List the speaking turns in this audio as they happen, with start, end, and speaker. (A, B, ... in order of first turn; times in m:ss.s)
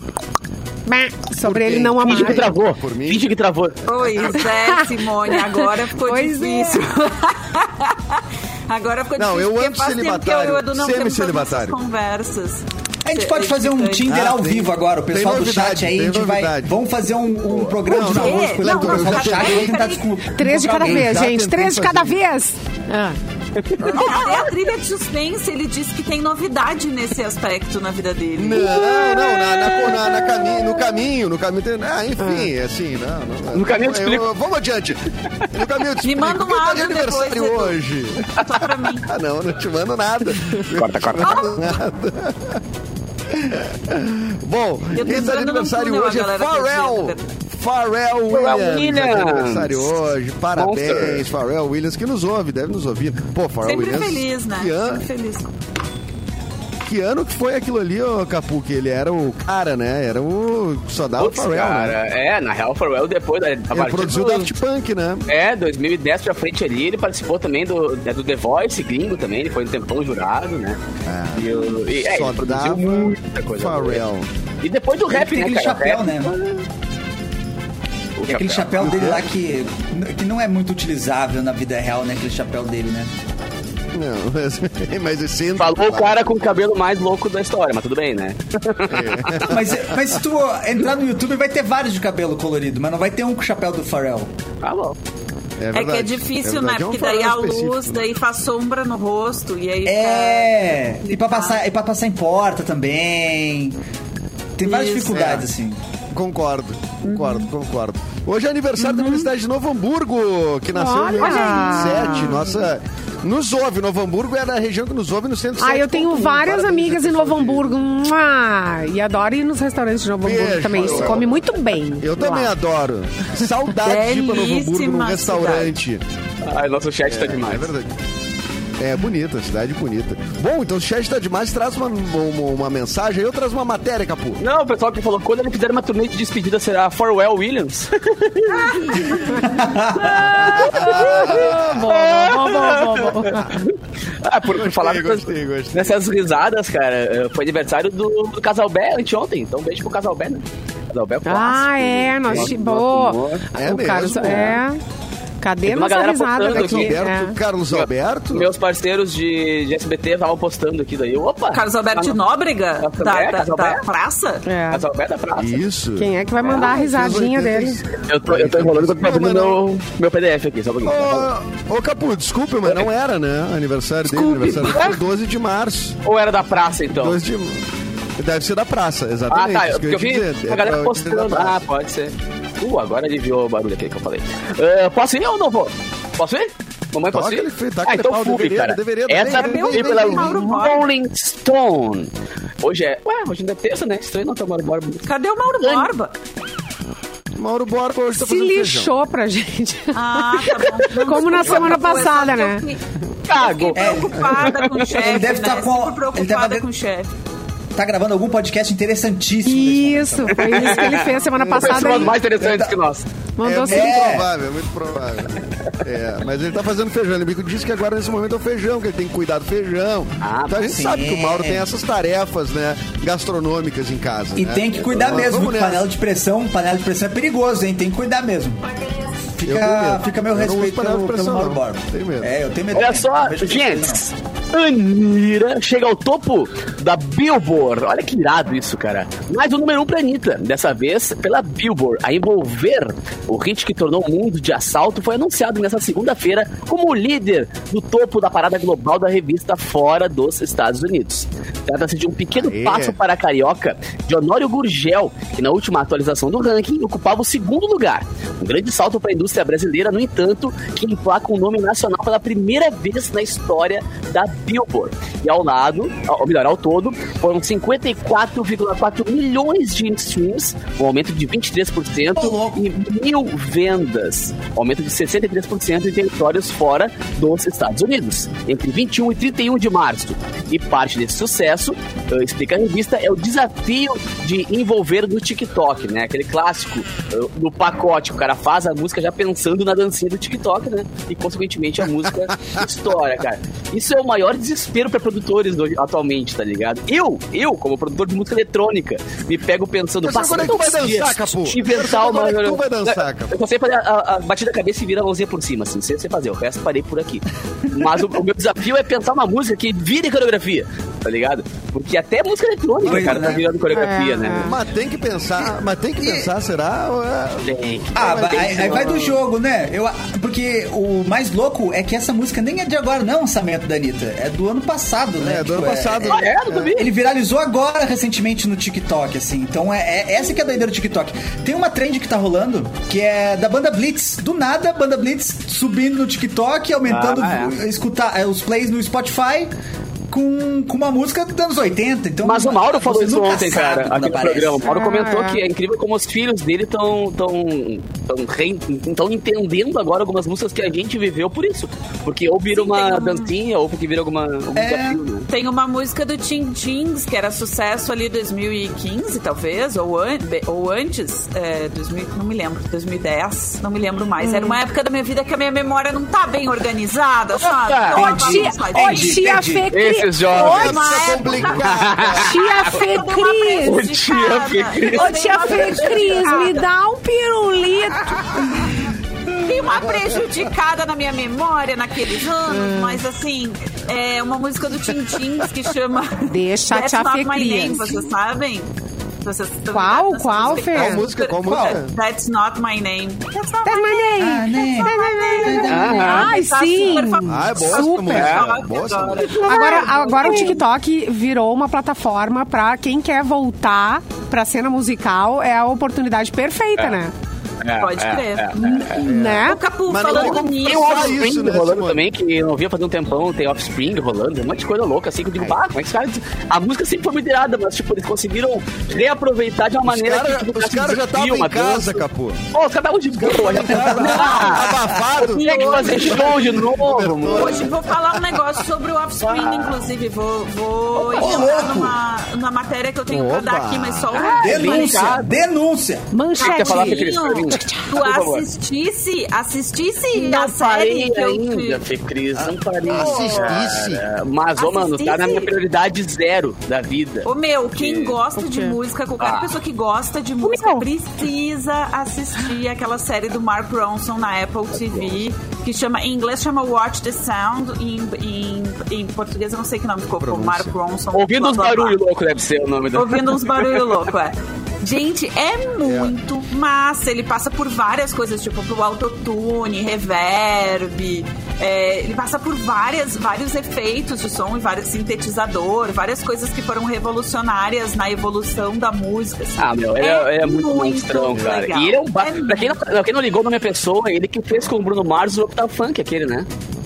0:00.8-0:02.4 A
0:01.4-0:03.2 B
0:02.0-0:04.3 C
0:03.8-0:14.1 D
0:04.4-0:07.3 A
0:09.2-0:11.8 B
0:13.0-0:21.2 E
0:14.0-0:16.7 B
0:17.5-0:17.8 C
0:17.8-0:19.8 B
0:17.9-0:20.0 D
0:20.3-0:23.2 A
0:20.4-0:22.2 B
0:23.6-0:24.4 C
0:23.8-0:28.8 D
0:28.4-0:42.6 B
0:28.6-0:30.9 C
0:32.2-0:32.5 A
0:33.5-0:34.3 C
0:36.0-0:37.8 D
0:38.3-0:39.1 D
0:40.7-0:41.4 C
0:41.2-0:41.7 D
0:43.3-0:55.0 B
0:44.9-0:47.3 D
0:48.3-0:50.0 C
0:50.6-0:51.2 C
0:53.6-0:55.5 D
0:56.8-1:02.0 B
1:01.2-1:04.5 C
1:03.7-1:05.2 B
1:05.3-1:10.8 C
1:11.0-1:14.3 B
1:11.3-1:14.0 C
1:14.6-1:16.6 C
1:15.1-1:16.3 E
1:18.2-1:19.2 C
1:18.3-1:23.1 E
1:18.8-1:19.3 B
1:23.9-1:26.4 B
1:25.6-1:29.5 C
1:28.8-1:29.8 B
1:29.4-1:34.3 E
1:34.6-1:35.0 C
1:35.6-1:38.0 B
1:35.7-1:41.6 D
1:39.8-1:43.8 E
1:44.6-1:45.8 E
1:44.6-1:45.2 D
1:45.1-1:45.4 B
1:46.1-1:57.8 B
1:47.0-1:47.5 D
1:48.8-1:49.2 E
1:50.7-1:52.5 A
1:51.2-1:51.8 D
1:55.6-2:02.5 A
2:00.2-2:01.4 B
2:00.7-2:01.3 C
2:02.0-2:06.0 B
2:03.8-2:05.7 D
2:06.4-2:07.7 C
2:07.0-2:07.9 B
2:08.8-2:14.4 B
2:14.4-2:19.3 C
2:18.5-2:19.4 D
2:19.4-2:20.4 E
2:20.0-2:33.4 C
2:20.2-2:21.8 B
2:20.6-2:23.5 A
2:24.5-2:26.0 B
2:31.2-2:34.8 A
2:32.3-2:32.5 B
2:33.5-2:34.6 B
2:35.4-2:37.4 A
2:35.6-2:37.0 C
2:36.5-2:38.5 B
2:37.7-2:42.2 C
2:41.5-2:44.5 D
2:42.8-2:43.8 C
2:44.4-2:44.8 A
2:44.7-2:45.6 C
2:45.4-2:49.6 B
2:46.0-2:47.8 A
2:46.4-2:46.7 C
2:48.0-2:51.3 C
2:50.8-2:56.0 B
2:54.1-2:55.0 C
2:56.0-2:57.2 C
2:56.9-2:57.6 B
2:58.2-3:01.6 B
2:59.3-3:15.0 C
3:07.1-3:10.4 B
3:09.3-3:10.9 D
3:15.0-3:16.1 D
3:15.6-3:15.9 C
3:17.4-3:18.9 B
3:18.1-3:20.5 A
3:19.9-3:22.8 D
3:20.6-3:21.8 C
3:21.0-3:22.6 A
3:23.2-3:25.1 C
3:23.3-3:27.1 D
3:23.7-3:26.6 E
3:27.7-3:31.0 E
3:29.4-3:32.2 A
3:30.3-3:33.1 C
3:31.3-3:32.0 B
3:32.4-3:32.7 E
3:33.4-3:34.2 A
3:33.4-3:45.9 B
3:33.6-3:34.3 E
3:40.2-3:40.7 C
3:40.6-3:41.6 E
3:44.3-3:48.6 E
3:49.3-3:54.1 E
3:49.4-3:52.3 B
3:52.7-5:14.5 C
4:12.3-4:13.0 B
4:32.2-4:32.6 E
5:00.0-5:03.3 B
5:12.8-5:13.4 E
5:13.7-5:14.6 A
5:14.4-5:18.9 B
5:16.0-5:16.3 E
5:17.4-5:19.2 C
5:17.9-5:39.5 E
5:25.2-5:26.8 B
5:26.0-5:26.9 C
5:36.8-5:37.6 C
5:40.1-5:44.7 E
5:42.2-5:55.3 C
5:44.6-5:45.4 A
5:52.5-5:53.3 D
5:54.5-5:55.0 E
5:55.3-6:09.3 D
6:04.2-6:04.6 A
6:07.3-6:08.1 C
6:07.9-6:09.7 E
6:08.0-6:10.9 A
6:09.7-6:12.4 C
6:10.3-6:12.4 B
6:10.4-6:16.7 D
6:12.1-6:13.9 A
6:13.6-6:15.8 C
6:14.9-6:18.8 A
6:19.3-6:28.7 D
6:19.7-6:20.4 B
6:22.5-6:23.0 A
6:26.3-6:28.1 A
6:29.2-6:34.1 D
6:29.7-6:31.0 A
6:30.5-6:31.9 B
6:31.4-6:31.8 E
6:33.6-6:38.3 A
6:34.2-6:36.0 E
6:34.8-6:40.6 D
6:35.6-6:36.3 C
6:37.2-6:39.3 B
6:38.1-6:38.5 C
6:39.2-6:40.6 C
6:39.4-6:47.1 A
6:47.6-6:49.0 C
6:47.8-6:51.2 D
6:48.6-6:49.6 A
6:49.0-6:52.0 B
6:50.0-7:07.7 C
6:59.8-7:02.4 B
7:03.1-7:08.6 B
7:03.6-7:05.0 E
7:05.3-7:06.5 D
7:07.3-7:15.2 D
7:09.2-7:09.8 C
7:10.9-7:11.7 C
7:11.1-7:12.0 E
7:13.1-7:14.2 B
7:14.1-7:15.4 C
7:14.4-7:16.1 E
7:16.1-7:17.9 A
7:16.4-7:21.8 D
7:16.4-7:18.4 C
7:20.1-7:28.2 C
7:22.9-7:24.0 B
7:22.9-7:23.6 D
7:24.6-7:25.5 D
7:27.2-7:42.0 D
7:28.4-7:28.8 A
7:29.2-7:29.6 C
7:30.4-7:30.8 A
7:34.7-7:35.2 C
7:40.2-7:40.7 B
7:41.1-7:44.0 C
7:42.9-8:02.8 D
7:45.8-7:46.1 B
7:59.6-8:06.5 C